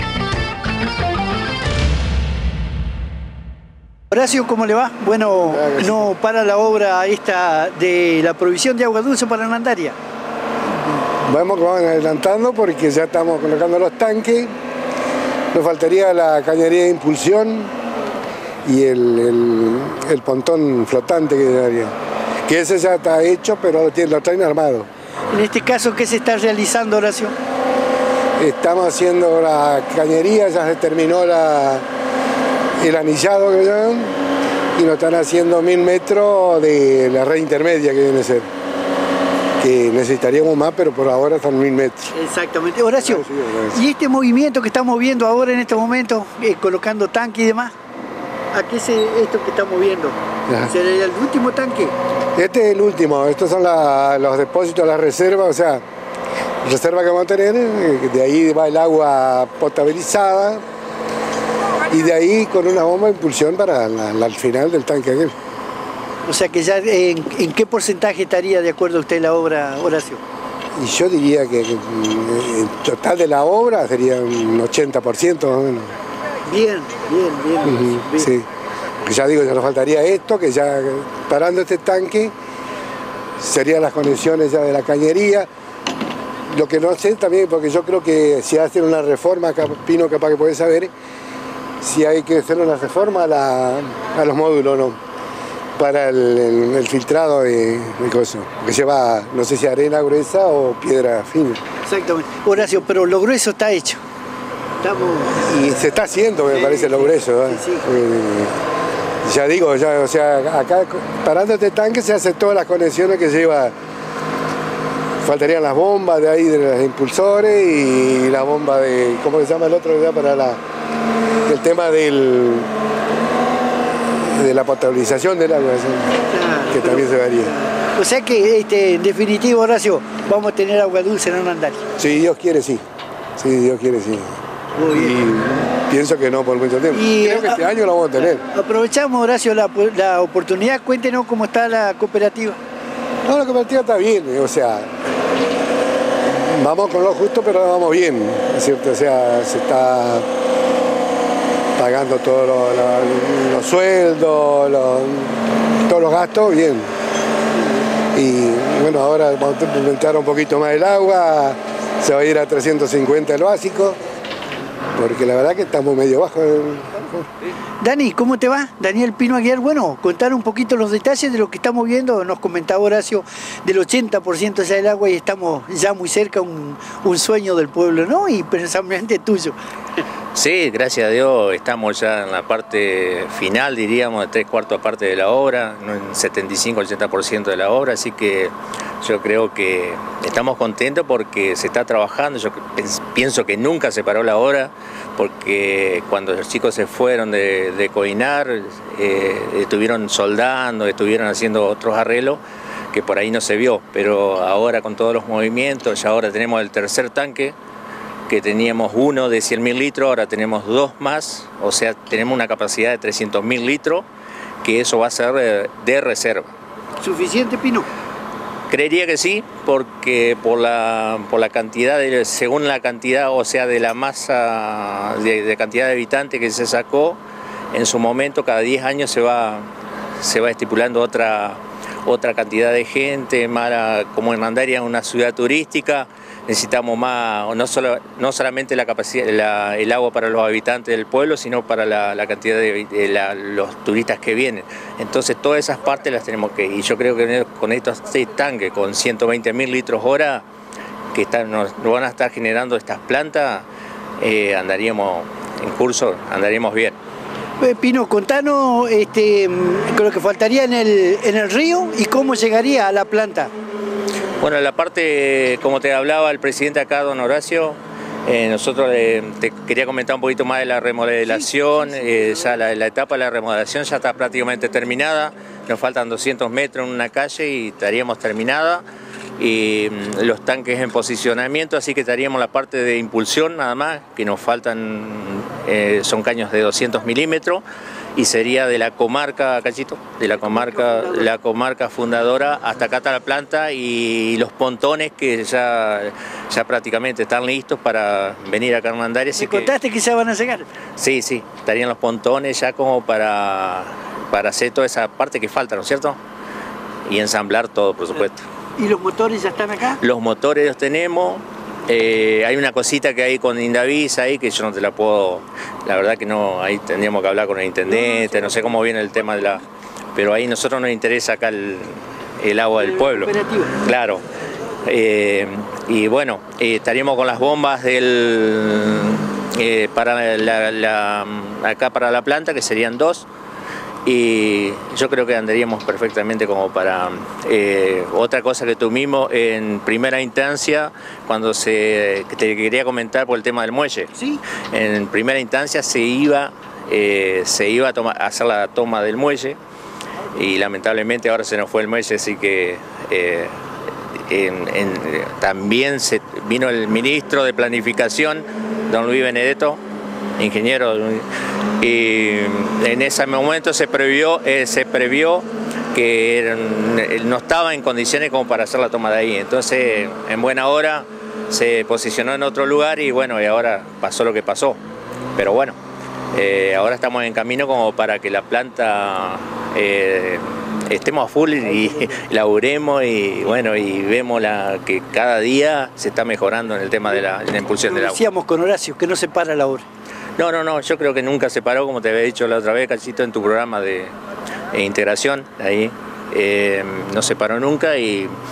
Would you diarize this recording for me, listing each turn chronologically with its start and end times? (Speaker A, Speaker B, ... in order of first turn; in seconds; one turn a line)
Speaker A: 4.1-9.9
Speaker B: 5.4-6.1
Speaker B: 11.1-14.5
Speaker B: 15.5-17.7
Speaker B: 18.6-21.9
Speaker B: 22.4-24.9
Speaker A: 25.3-27.3
Speaker B: 28.4-31.8
Speaker B: 32.8-34.2
Speaker B: 34.8-38.5
Speaker B: 39.6-42.1
Speaker A: 42.1-47.7
Speaker B: 43.0-43.8
Speaker A: 48.5-51.9
Speaker B: 52.4-55.8
Speaker B: 56.6-60.6
Speaker B: 61.9-65.3
Speaker A: 66.2-70.2
Speaker B: 70.8-75.9
Speaker A: 76.4-78.3
Speaker B: 77.6-78.5
Speaker B: 79.0-82.3
Speaker B: 83.4-85.5
Speaker B: 86.5-90.9
Speaker B: 91.8-95.0
Speaker B: 95.8-101.6
Speaker A: 101.8-104.0
Speaker A: 104.8-105.4
Speaker B: 105.4-108.5
Speaker A: 106.5-107.8
Speaker B: 109.2-113.7
Speaker B: 115.2-120.6
Speaker B: 121.5-122.7
Speaker B: 124.2-126.2
Speaker A: 126.2-131.8
Speaker B: 126.7-127.5
Speaker B: 132.0-132.8
Speaker B: 133.4-134.3
Speaker A: 134.8-135.2
Speaker B: 134.9-138.4
Speaker A: 136.9-137.7
Speaker A: 138.4-142.6
Speaker B: 143.2-144.9
Speaker B: 146.2-150.2
Speaker B: 151.8-156.9
Speaker B: 158.1-164.0
Speaker B: 164.9-167.3
Speaker A: 167.8-179.6
Speaker C: 180.3-202.4
Speaker C: 202.9-207.5
Speaker C: 208.3-214.1
Speaker C: 214.6-216.5
Speaker A: 217.0-217.9
Speaker C: 218.7-227.2
Speaker C: 227.7-229.7
Speaker C: 230.2-250.4
Speaker C: 251.1-253.6
Speaker C: 254.2-256.9
Speaker A: 257.6-263.5
Speaker C: 264.4-278.8
Speaker A: 271.2-272.6
Speaker C: 279.4-287.6
Speaker C: 288.1-299.7
Speaker A: 290.4-291.3
Speaker A: 299.4-300.7
Speaker C: 301.0-306.2
Speaker C: 307.1-308.4
Speaker A: 308.8-310.0
Speaker C: 310.0-319.6
Speaker A: 317.9-318.8
Speaker C: 320.1-324.2
Speaker A: 322.8-323.7
Speaker C: 324.9-333.2
Speaker C: 334.0-344.1
Speaker A: 344.1-344.4
Speaker C: 344.7-349.6
Speaker C: 350.3-353.5
Speaker C: 354.3-359.8
Speaker C: 360.4-361.2
Speaker C: 361.8-374.8
Speaker C: 375.4-375.8
Speaker C: 376.3-388.2
Speaker A: 387.9-389.8
Speaker C: 390.4-394.1
Speaker C: 394.7-398.3